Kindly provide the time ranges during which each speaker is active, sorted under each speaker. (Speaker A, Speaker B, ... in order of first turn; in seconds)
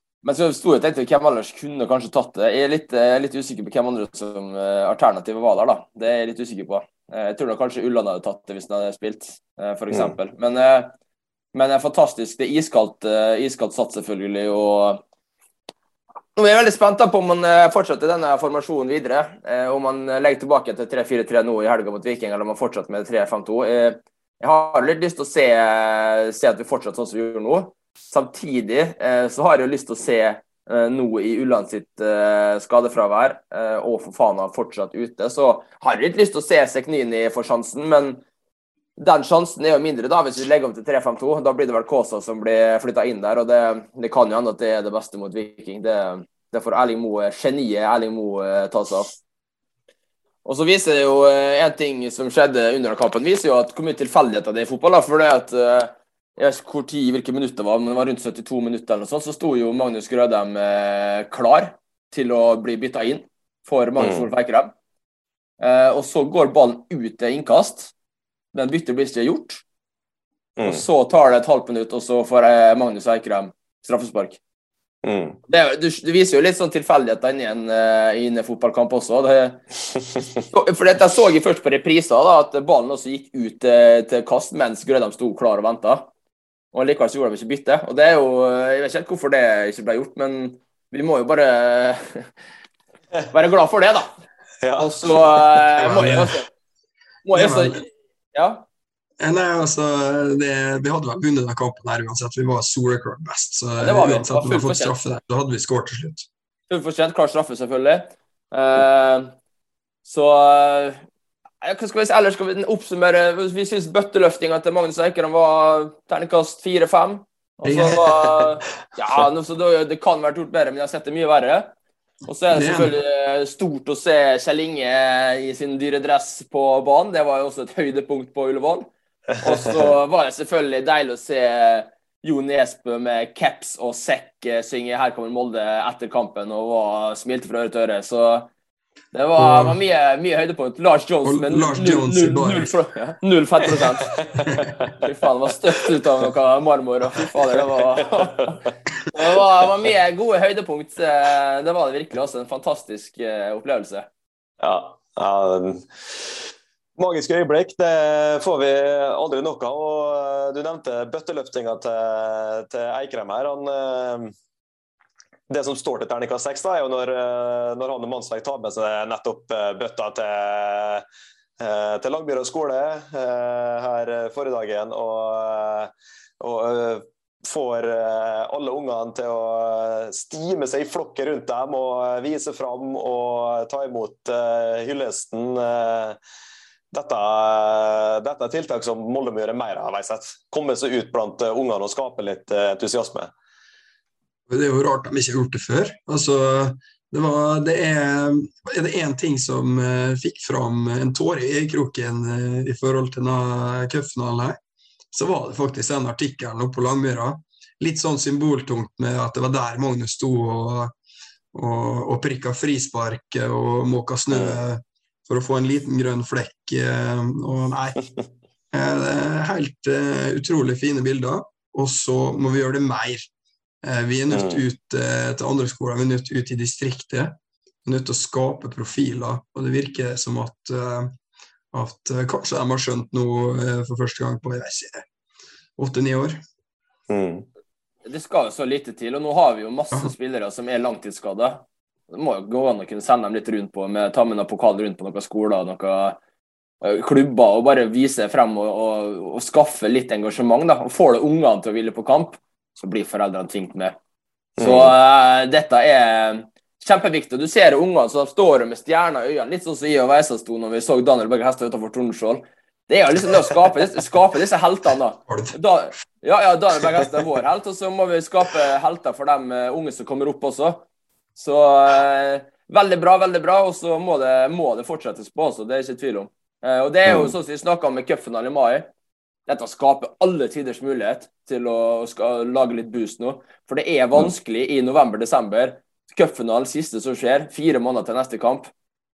Speaker A: 0.2-10.9, 11.5-15.0, 16.4-38.2, 39.0-49.1, 50.4-64.7, 65.6-67.9, 68.5-69.6, 70.6-74.4, 75.5-79.6, 80.5-86.1, 86.7-92.3, 93.3-94.1, 94.8-96.5, 97.2-98.6, 103.8-104.9, 106.7-109.3, 110.0-111.0, 111.6-121.7, 122.2-128.9, 129.4-138.5, 139.1-144.2, 144.9-154.1, 238.1-246.2, 246.8-253.9, 254.6-278.9, 279.5-288.7
Speaker B: 64.0-64.3, 70.6-70.8, 75.0-75.4, 94.6-95.2, 154.6-155.8, 157.0-164.3, 165.5-171.1, 171.6-186.2, 186.9-193.3, 214.3-214.6, 224.3-224.6, 237.1-237.5, 254.6-254.9, 277.1-277.3
Speaker C: 95.8-96.4, 97.3-97.8, 99.2-106.2, 117.6-118.0, 122.5-122.9, 139.4-139.8, 141.2-142.7, 194.5-204.6, 205.1-210.9, 211.5-218.0, 218.7-223.2, 223.8-227.3, 227.8-231.2, 231.7-235.1, 235.8-236.4, 265.3-265.5